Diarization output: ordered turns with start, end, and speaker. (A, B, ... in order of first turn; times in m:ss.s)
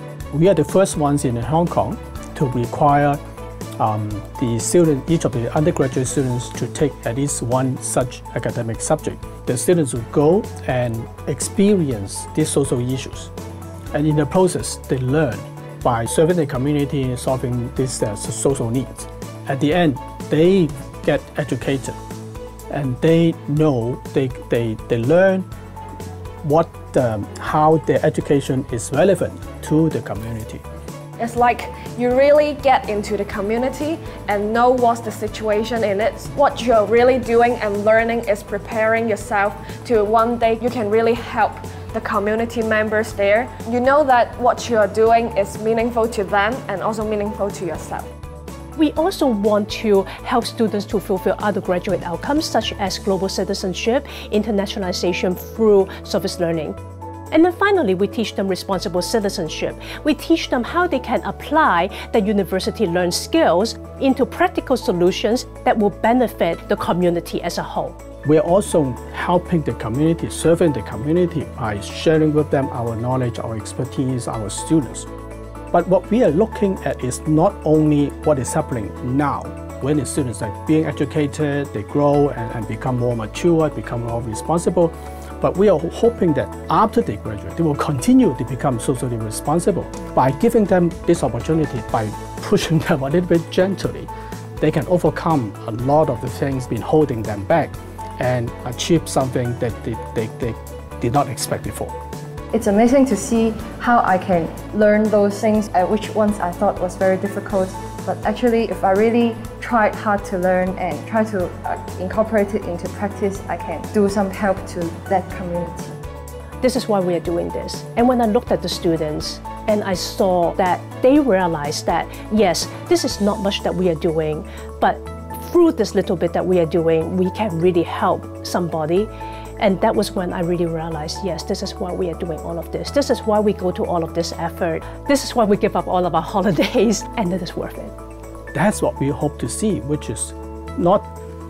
0:00.3-0:03.2 A
0:03.8-0:13.3 A
0:13.9-0:22.0 A
0:22.7-0:25.5 A
0:26.4-0:30.6 A
0:31.2-0:48.0 B
0:48.8-0:56.8 C
0:57.3-1:08.0 C
1:08.2-1:15.1 A
1:15.7-1:41.9 A
1:42.5-1:55.9 D
1:56.6-2:17.9 C
2:18.5-2:21.1 A